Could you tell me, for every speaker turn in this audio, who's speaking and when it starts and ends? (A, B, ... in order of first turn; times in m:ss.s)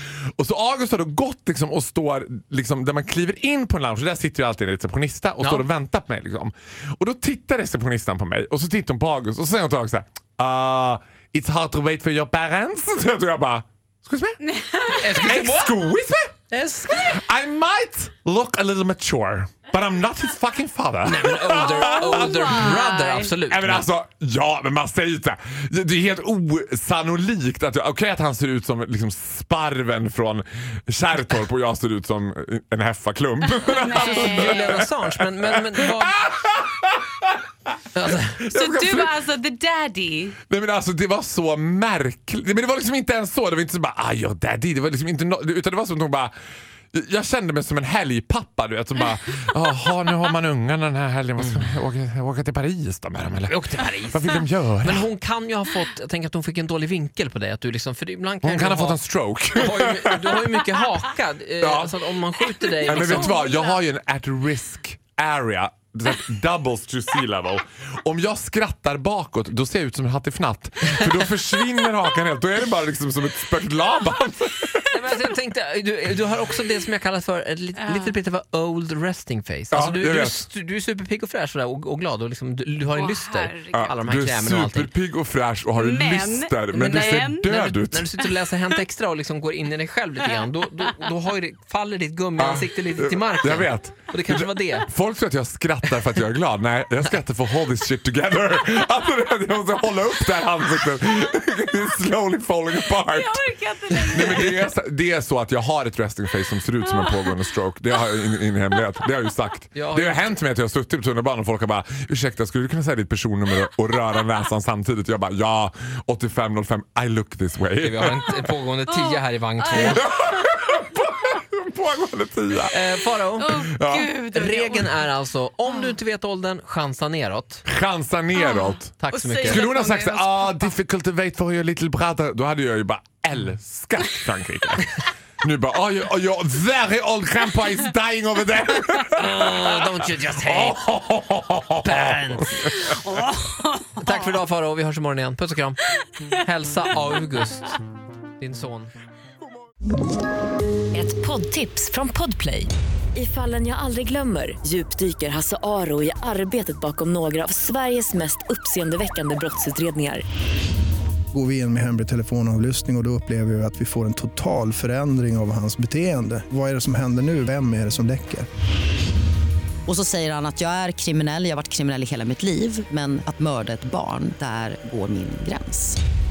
0:00.4-0:14.4 A
0:14.5-0:15.0 B
0:14.9-0:15.8 C
0:14.9-0:16.3 A
0:16.5-0:17.2 C
0:16.9-0:22.6 A
0:21.0-0:23.9 C
0:21.6-0:23.3 B
0:23.5-0:34.8 A
0:33.6-0:34.7 B
0:33.9-0:36.2 C
0:35.4-0:37.4 A
0:38.0-0:38.4 C
0:38.0-0:39.2 A
0:38.5-0:40.4 B
0:40.4-0:46.3 A
0:46.9-0:53.6 A
0:51.4-0:51.8 C
0:53.5-0:59.0 C
0:54.1-0:55.1 A
0:58.4-1:00.6 A
0:59.6-1:03.4 C
1:01.6-1:01.9 A
1:02.7-1:14.9 A
1:02.8-1:03.8 B
1:14.9-1:24.9 C
1:17.8-1:18.2 B
1:19.7-1:20.4 A
1:22.9-1:23.9 B
1:23.7-1:28.1 A
1:25.8-1:27.5 B
1:26.7-1:34.9 C
1:32.4-1:43.5 A
1:43.1-1:44.6 B
1:44.1-1:58.4 A
1:47.0-1:47.3 B
1:49.8-1:50.3 C
1:57.8-2:00.0 C
1:58.9-2:00.0 B
1:59.8-2:02.8 A
2:02.7-2:03.6 C
2:03.4-2:05.0 B
2:03.5-2:04.1 A
2:04.3-2:07.6 C
2:07.7-2:08.9 A
2:08.3-2:10.7 B
2:09.0-2:09.7 C
2:09.4-2:19.8 A
2:19.1-2:20.9 C
2:20.4-2:22.9 A
2:21.8-2:22.9 C
2:22.9-2:24.2 B
2:24.0-2:27.8 C
2:28.4-2:28.9 C
2:30.9-2:40.2 D
2:41.3-2:48.5 E
2:49.9-2:56.0 F